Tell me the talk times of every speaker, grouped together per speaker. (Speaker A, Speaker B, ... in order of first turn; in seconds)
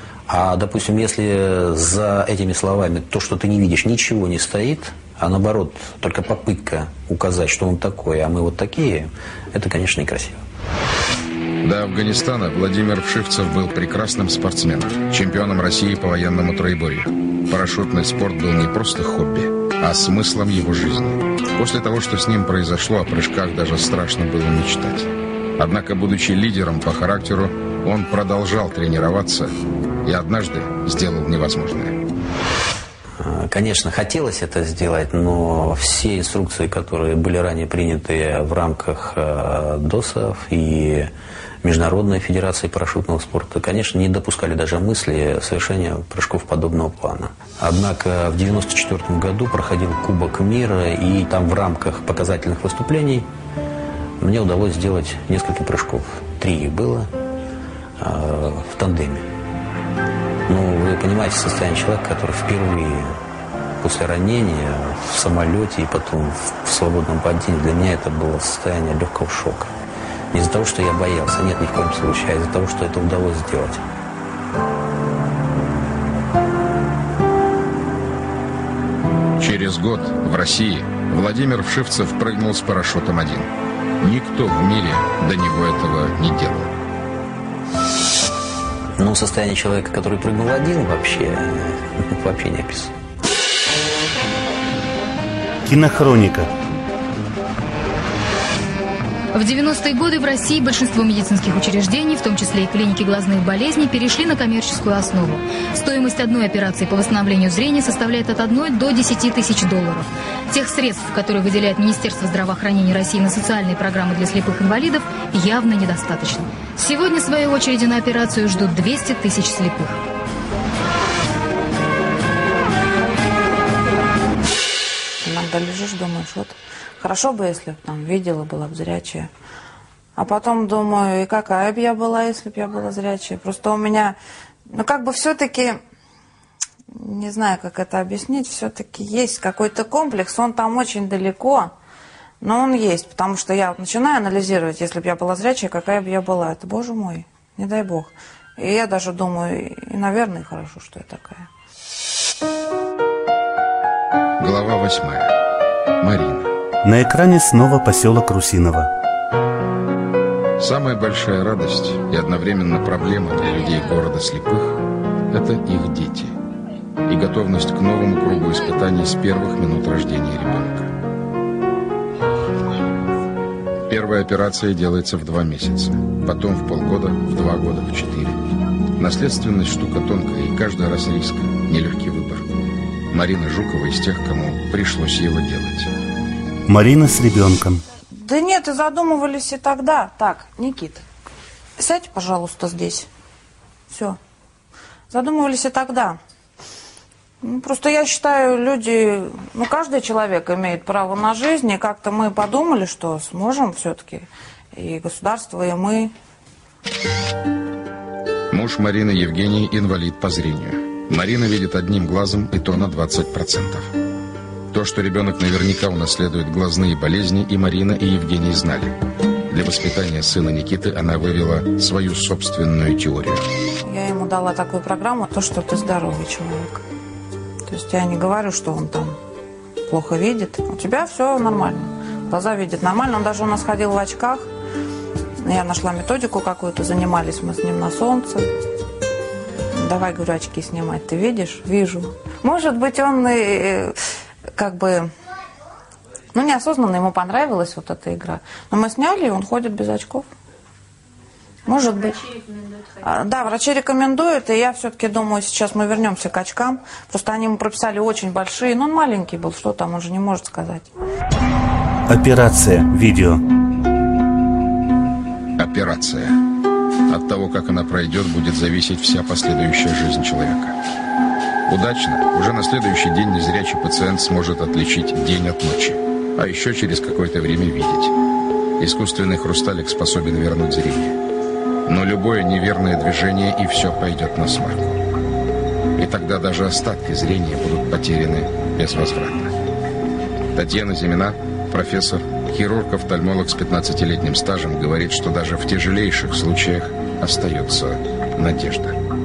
Speaker A: 0.3-10.4, 33.2-41.1, 41.6-53.3, 54.2-57.1, 58.0-59.2, 60.5-63.1, 63.8-69.7, 70.3-73.8, 89.0-92.9
Speaker B: 11.6-32.0, 79.4-83.5, 84.0-86.7, 154.4-155.3, 156.0-156.5, 160.6-164.8, 165.3-166.3, 167.1-170.9, 173.9-178.4, 179.0-182.5, 183.1-185.9, 208.5-213.9, 214.7-218.9, 219.5-223.4, 265.6-266.4, 267.1-270.7, 271.7-278.1, 278.8-281.1, 281.9-285.0, 286.0-289.5, 290.5-298.9
Speaker C: 95.7-96.5, 156.8-158.9, 186.7-187.8, 262.1-263.4
Speaker D: 99.3-120.0
Speaker E: 125.2-129.3, 130.2-134.2, 134.7-135.8, 137.0-141.7, 142.4-151.5, 188.2-191.0, 191.8-193.1, 193.9-194.2, 195.1-196.2, 197.4-206.1, 223.8-226.8, 227.7-229.2, 229.9-234.5, 235.4-238.5, 239.8-243.9, 244.5-245.1, 246.3-250.3, 251.7-252.2, 253.0-260.9